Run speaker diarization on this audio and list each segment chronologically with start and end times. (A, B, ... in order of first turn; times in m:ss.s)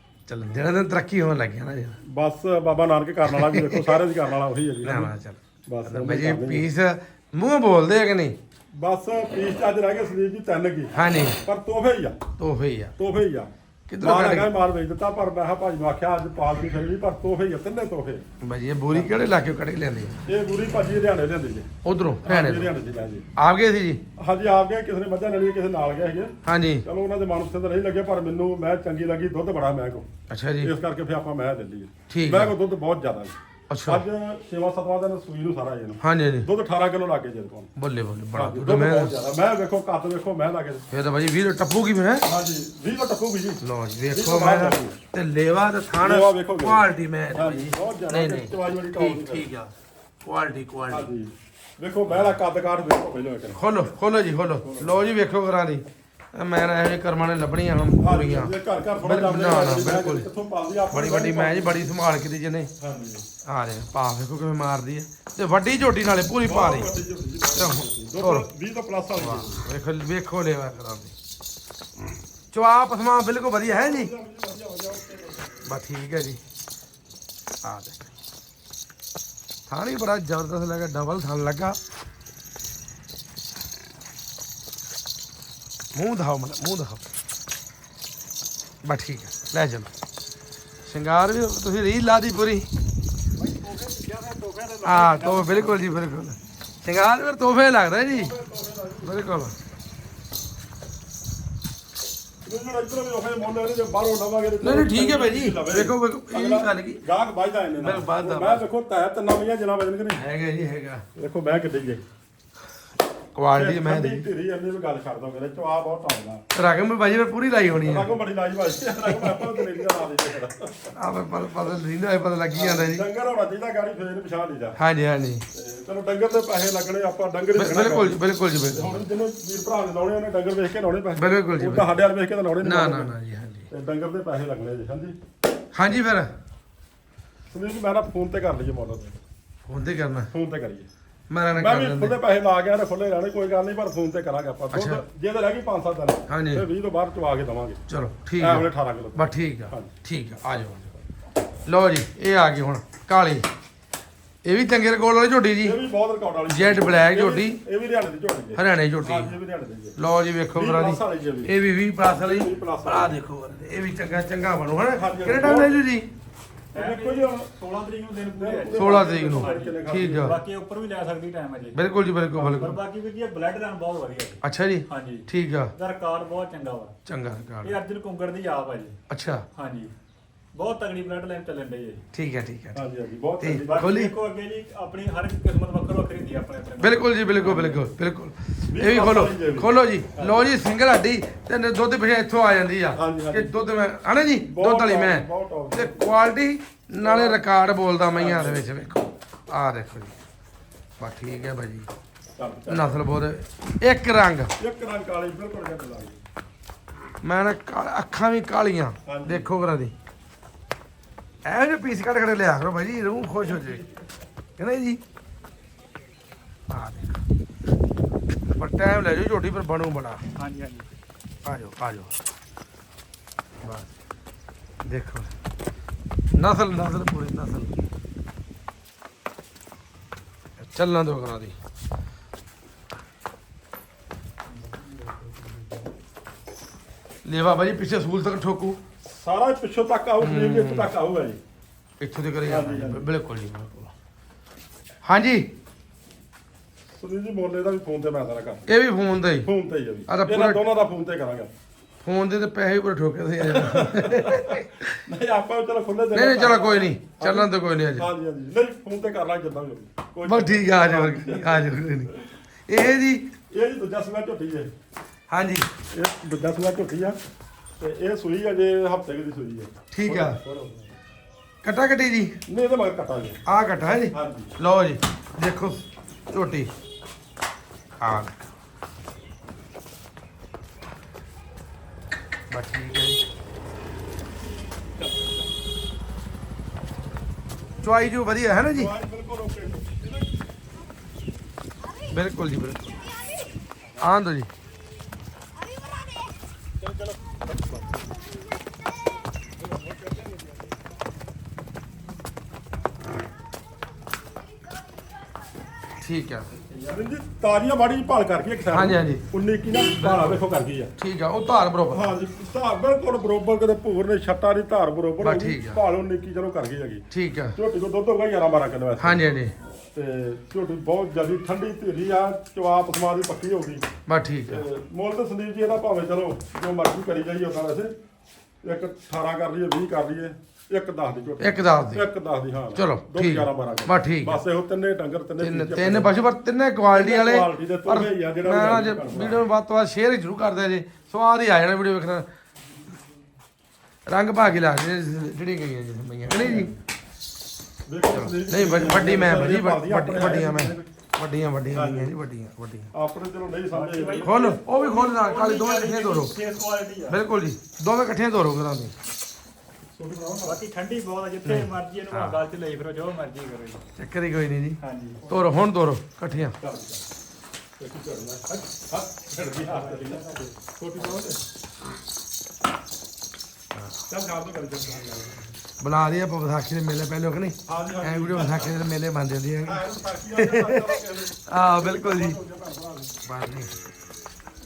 0:00.3-0:02.0 A
0:02.0-0:05.1 B
0:03.2-0:04.0 A
0:04.8-0:08.4 A
0:05.7-0:06.7 B
0:08.7-0:12.2 B
0:10.9-0:11.4 A
0:12.4-0:12.9 A
0:13.0-0:13.5 B
0:13.9-0:14.5 A
0:14.0-0:18.2 B
0:18.4-0:20.2 A
0:20.2-0:21.7 B
0:21.8-0:22.7 A
0:22.2-0:23.2 B
0:23.4-0:24.0 A
0:24.2-0:30.1 B
0:26.4-0:26.8 A
0:30.3-0:30.7 A
0:30.6-0:33.3 B
0:32.1-0:32.5 A
0:33.7-0:34.0 A
0:33.9-0:37.7 B
0:36.0-0:36.5 A
0:37.8-0:39.1 A
0:38.3-0:40.8 B
0:40.9-0:42.3 A
0:42.2-0:45.0 B
0:43.6-0:51.1 A
0:46.0-0:49.5 B
0:50.9-0:53.9 B
0:53.6-1:00.3 A
0:54.6-0:55.0 B
0:58.0-1:01.9 B
1:00.9-1:02.7 A
1:02.8-1:03.2 B
1:03.4-1:06.9 A
1:06.4-1:09.6 B
1:07.6-1:08.4 A
1:09.1-1:11.1 A
1:12.5-1:14.1 A
1:13.6-1:15.7 B
1:15.6-1:16.4 A
1:17.6-1:18.1 A
1:19.7-1:21.8 A
1:25.9-1:27.0 A
1:28.8-1:29.9 A
1:30.8-1:32.7 A
1:33.4-1:35.8 C
1:34.8-1:38.3 A
1:38.1-1:39.1 B
1:39.0-1:39.5 A
1:42.4-1:50.2 B
1:44.6-1:47.0 A
1:47.8-1:48.6 A
1:50.2-1:51.0 A
1:51.2-1:52.0 B
1:53.3-1:54.3 A
1:53.5-1:56.4 B
1:56.5-1:58.1 A
1:57.7-2:00.9 B
1:59.2-1:59.5 A
2:00.9-2:03.0 A
2:02.5-2:04.8 B
2:04.8-2:05.4 A
2:05.5-2:08.2 B
2:07.5-2:09.0 A
2:08.7-2:13.1 B
2:11.2-2:11.9 A
2:12.6-2:13.7 A
2:13.7-2:15.2 B
2:15.7-2:16.3 A
2:17.5-2:19.2 B
2:19.7-2:20.3 A
2:20.3-2:20.9 B
2:21.3-2:22.2 A
2:21.6-2:27.8 B
2:24.7-2:25.0 A
2:26.3-2:26.6 A
2:27.9-2:30.9 A
2:28.4-2:29.9 B
2:31.6-2:33.4 A
2:34.4-2:35.8 A
2:35.6-2:40.0 B
2:36.5-2:37.6 A
2:38.6-2:39.4 A
2:40.0-2:46.1 A
2:40.5-2:43.2 B
2:44.9-2:45.8 B
2:46.7-2:51.8 C
2:46.7-2:47.5 B
2:48.3-2:50.4 B
2:48.8-2:50.4 A
2:51.7-2:52.8 A
2:52.5-2:56.9 C
2:54.4-2:55.7 A
2:57.0-2:57.8 A
2:57.6-2:59.0 C
2:59.1-2:59.4 A
2:59.6-2:59.9 C
3:00.5-3:02.0 C
3:02.1-3:02.8 A
3:02.7-3:04.0 B
3:03.4-3:04.1 A
3:03.6-3:07.8 C
3:06.8-3:20.1 A
3:08.7-3:09.7 B
3:12.9-3:13.6 B
3:14.4-3:16.1 B
3:17.0-3:17.4 B
3:18.1-3:18.7 B
3:21.0-3:21.9 A
3:22.4-3:23.0 B
3:22.7-3:24.5 A
3:24.6-3:26.2 B
3:27.2-3:29.9 A
3:29.0-3:29.5 B
3:31.4-3:33.8 A
3:34.6-3:35.0 A
3:36.7-3:37.2 A
3:38.5-3:40.2 A
3:40.4-3:40.9 C
3:41.4-3:42.2 A
3:43.6-3:43.9 A
3:44.8-3:45.3 A
3:46.3-3:47.8 A
3:50.6-3:51.6 A
3:54.5-3:55.9 C
3:57.2-3:58.8 A
3:59.1-4:01.4 B
4:00.2-4:00.9 A
4:02.0-4:03.9 A
4:02.4-4:03.1 B
4:05.0-4:05.4 A
4:06.9-4:08.7 B
4:08.7-4:09.5 A
4:09.4-4:11.5 B
4:10.1-4:10.6 A
4:12.0-4:14.9 A
4:13.4-4:22.2 B
4:16.1-4:18.1 A
4:20.2-4:22.1 A
4:22.7-4:23.2 A
4:23.5-4:24.7 B
4:25.3-4:25.7 A
4:25.9-4:27.2 B
4:27.8-4:30.9 B
4:29.9-4:30.4 A
4:31.6-4:32.3 A
4:32.5-4:33.4 B
4:33.4-4:36.7 A
4:34.1-4:34.5 B
4:38.0-4:38.4 A
4:42.5-4:43.2 A
4:47.8-4:48.9 A
4:48.7-4:50.2 B
4:52.1-4:53.0 A
4:54.0-4:54.5 A
4:56.8-4:57.9 B
4:59.6-5:00.5 B
5:06.0-5:06.5 A
5:06.6-5:10.9 B
5:08.7-5:09.2 A
5:10.0-5:10.4 A
5:11.0-5:12.1 A
5:11.9-5:19.2 B
5:15.2-5:15.8 A
5:17.1-5:17.5 A
5:19.0-5:19.5 A
5:19.9-5:23.9 B
5:24.0-5:24.6 A
5:24.5-5:27.9 B
5:28.6-5:36.1 B
5:31.4-5:32.0 A
5:32.7-5:34.4 A
5:35.4-5:42.2 A
5:36.9-5:39.4 B
5:44.1-5:46.7 A
5:46.3-5:46.7 B
5:47.9-5:50.9 B
5:48.1-5:52.9 A
5:51.7-5:52.1 B
5:52.9-5:54.3 B
5:53.7-5:57.2 C
5:54.2-5:56.4 A
5:57.1-5:58.9 A
6:00.0-6:00.6 B
6:00.4-6:03.8 C
6:01.4-6:02.4 A
6:04.0-6:06.5 A
6:04.8-6:05.2 C
6:06.6-6:07.0 B
6:07.8-6:11.4 B
6:09.6-6:10.5 C
6:11.0-6:11.3 C
6:14.1-6:15.6 B
6:15.8-6:22.4 A
6:17.6-6:18.8 B
6:19.6-6:23.2 B
6:23.2-6:23.7 A